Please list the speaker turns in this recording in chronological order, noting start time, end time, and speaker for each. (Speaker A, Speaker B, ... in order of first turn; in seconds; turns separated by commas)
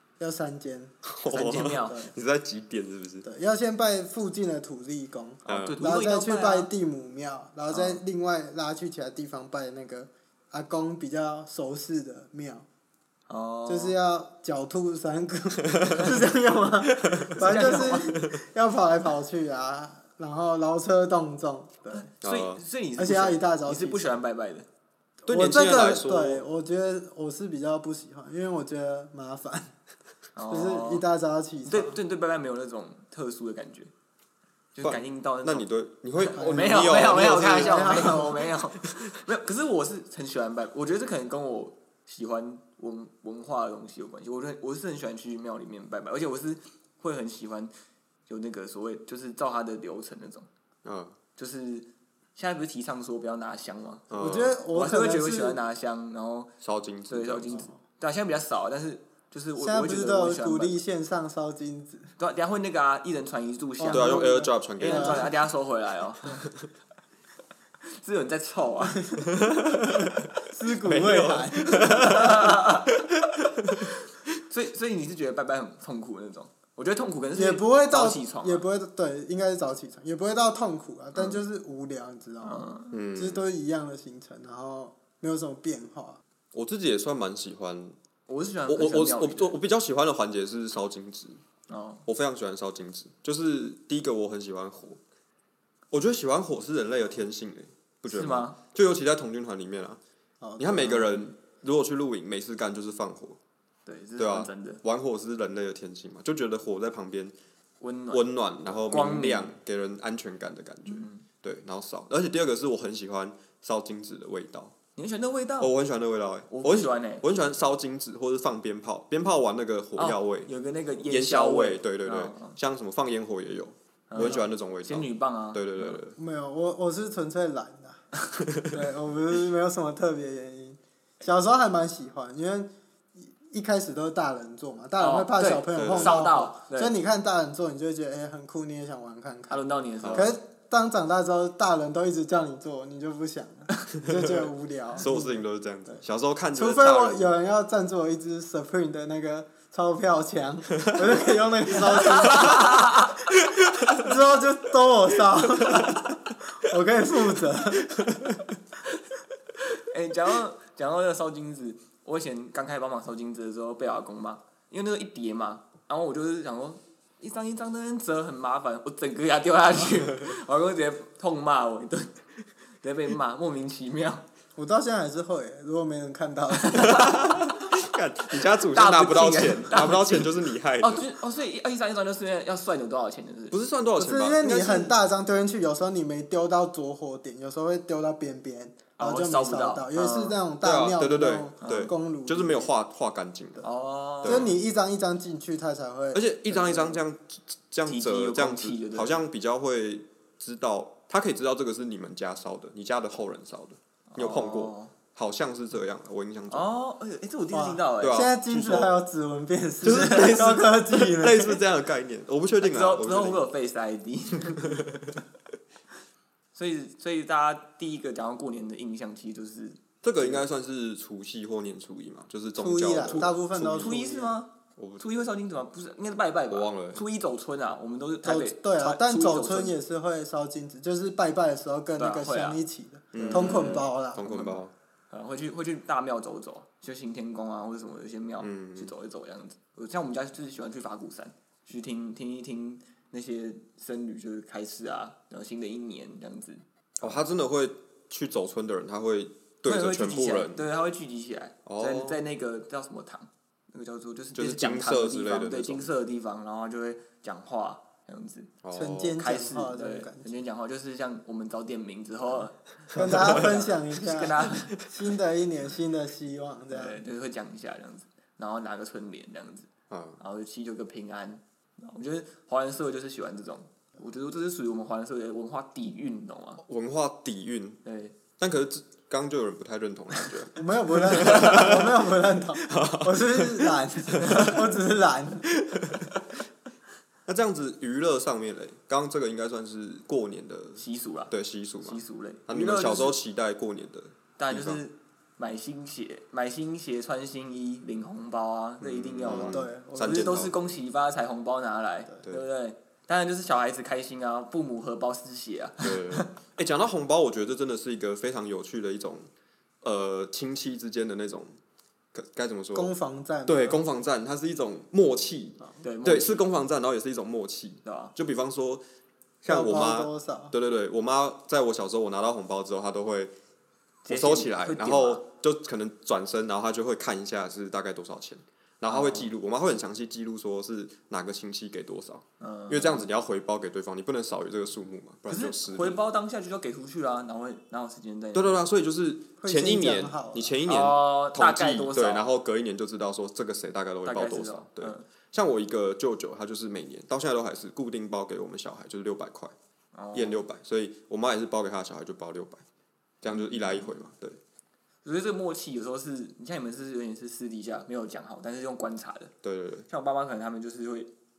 Speaker A: 0.2-2.1, Speaker B: 1.0-3.2, Speaker C: 1.3-2.1, Speaker A: 3.2-12.7, Speaker C: 5.4-6.7, Speaker B: 5.5-5.8, Speaker C: 7.7-8.0, Speaker C: 13.3-13.9, Speaker A: 13.7-22.1, Speaker B: 15.6-16.1, Speaker B: 16.8-18.4, Speaker C: 17.3-18.1, Speaker C: 21.9-24.7, Speaker B: 22.2-22.6, Speaker A: 23.0-24.1, Speaker A: 25.2-29.7, Speaker B: 25.3-26.4, Speaker C: 30.4-31.1, Speaker A: 30.5-32.0, Speaker C: 31.6-33.9, Speaker C: 34.7-35.7, Speaker B: 34.8-38.4, Speaker C: 36.2-47.7, Speaker A: 36.4-38.4, Speaker C: 48.3-50.5, Speaker B: 50.8-51.1, Speaker C: 51.4-54.1, Speaker B: 54.1-54.6, Speaker A: 54.2-55.6, Speaker C: 54.7-56.5, Speaker B: 56.6-57.6, Speaker C: 57.1-60.8, Speaker A: 59.6-62.1, Speaker C: 62.2-66.4, Speaker A: 63.8-65.3, Speaker B: 63.9-65.3, Speaker C: 67.9-69.2, Speaker B: 69.2-73.9, Speaker A: 70.5-72.4, Speaker C: 71.7-72.9, Speaker C: 74.5-78.6, Speaker A: 77.3-86.2, Speaker C: 81.1-81.4, Speaker C: 82.4-82.9, Speaker B: 82.9-83.4, Speaker B: 86.5-88.0, Speaker C: 88.3-89.6, Speaker B: 88.7-91.4, Speaker C: 91.7-92.0, Speaker B: 92.0-95.0, Speaker B: 95.9-100.0, Speaker C: 98.1-98.6, Speaker A: 100.4-101.1, Speaker B: 100.6-103.4, Speaker C: 103.8-104.8, Speaker B: 104.2-107.3, Speaker C: 107.8-109.5, Speaker B: 108.1-114.7, Speaker C: 110.9-111.2, Speaker C: 115.0-115.7, Speaker B: 115.6-120.5, Speaker C: 116.5-117.2, Speaker C: 120.0-122.6, Speaker B: 121.1-126.2, Speaker C: 124.1-126.0, Speaker A: 126.2-128.0, Speaker B: 128.5-128.8, Speaker A: 128.7-139.6, Speaker C: 135.0-137.0, Speaker B: 135.7-136.3, Speaker C: 139.5-140.3, Speaker B: 140.0-140.3, Speaker A: 140.1-145.4, Speaker B: 144.0-147.3, Speaker A: 146.5-153.1, Speaker B: 150.8-151.1, Speaker C: 152.0-153.2, Speaker A: 153.8-157.9, Speaker B: 158.0-158.4, Speaker C: 159.6-172.2, Speaker C: 172.8-174.2, Speaker A: 174.6-177.1, Speaker C: 176.7-177.4, Speaker B: 176.7-181.1, Speaker C: 178.6-183.6, Speaker B: 183.5-184.9, Speaker A: 184.0-192.7, Speaker C: 189.0-190.4, Speaker B: 190.6-193.6, Speaker C: 191.6-191.9, Speaker C: 193.6-194.5, Speaker B: 194.2-194.5, Speaker A: 194.2-197.0, Speaker B: 196.1-206.7, Speaker C: 197.8-199.2, Speaker C: 204.1-204.9, Speaker C: 206.5-208.9, Speaker A: 207.5-211.6, Speaker B: 208.0-208.9, Speaker B: 209.8-213.4, Speaker C: 209.8-210.4, Speaker C: 212.6-215.0, Speaker B: 214.6-215.2, Speaker C: 216.5-220.4, Speaker B: 220.0-224.1, Speaker A: 222.6-224.3, Speaker C: 223.1-229.8, Speaker B: 224.8-225.1, Speaker B: 226.5-227.0, Speaker A: 228.2-234.5, Speaker C: 232.0-232.6, Speaker B: 233.1-234.7, Speaker C: 233.1-233.9, Speaker C: 235.1-247.1, Speaker B: 238.4-238.9, Speaker B: 247.0-250.7, Speaker C: 249.7-258.5, Speaker B: 251.7-252.2, Speaker B: 254.3-255.9, Speaker B: 258.6-259.2, Speaker A: 258.7-260.3, Speaker C: 259.2-264.7, Speaker A: 262.9-267.0, Speaker B: 262.9-263.6, Speaker C: 266.7-276.6, Speaker B: 269.9-270.2, Speaker B: 276.6-277.8, Speaker C: 277.8-278.1, Speaker B: 278.4-284.7, Speaker A: 280.6-285.5, Speaker B: 285.6-286.2, Speaker B: 287.2-294.8, Speaker C: 290.8-291.3, Speaker C: 291.8-293.2, Speaker C: 294.4-306.3, Speaker B: 298.8-300.6, Speaker A: 299.3-300.4, Speaker B: 305.8-309.3, Speaker B: 309.8-311.6, Speaker B: 312.1-312.9, Speaker A: 312.7-313.8, Speaker B: 313.4-318.8, Speaker C: 315.8-316.4, Speaker C: 317.8-318.1, Speaker B: 319.4-323.3, Speaker A: 319.5-320.5, Speaker C: 324.0-325.2, Speaker B: 324.1-336.0, Speaker C: 328.9-329.3, Speaker C: 332.4-333.1, Speaker C: 335.3-338.6, Speaker B: 338.3-349.5, Speaker A: 339.4-340.6, Speaker C: 340.6-342.3, Speaker C: 344.0-345.1, Speaker C: 349.9-350.4, Speaker B: 350.1-352.6, Speaker B: 353.2-354.4, Speaker C: 353.3-353.9, Speaker C: 355.0-359.3, Speaker B: 359.4-359.9, Speaker C: 359.9-361.1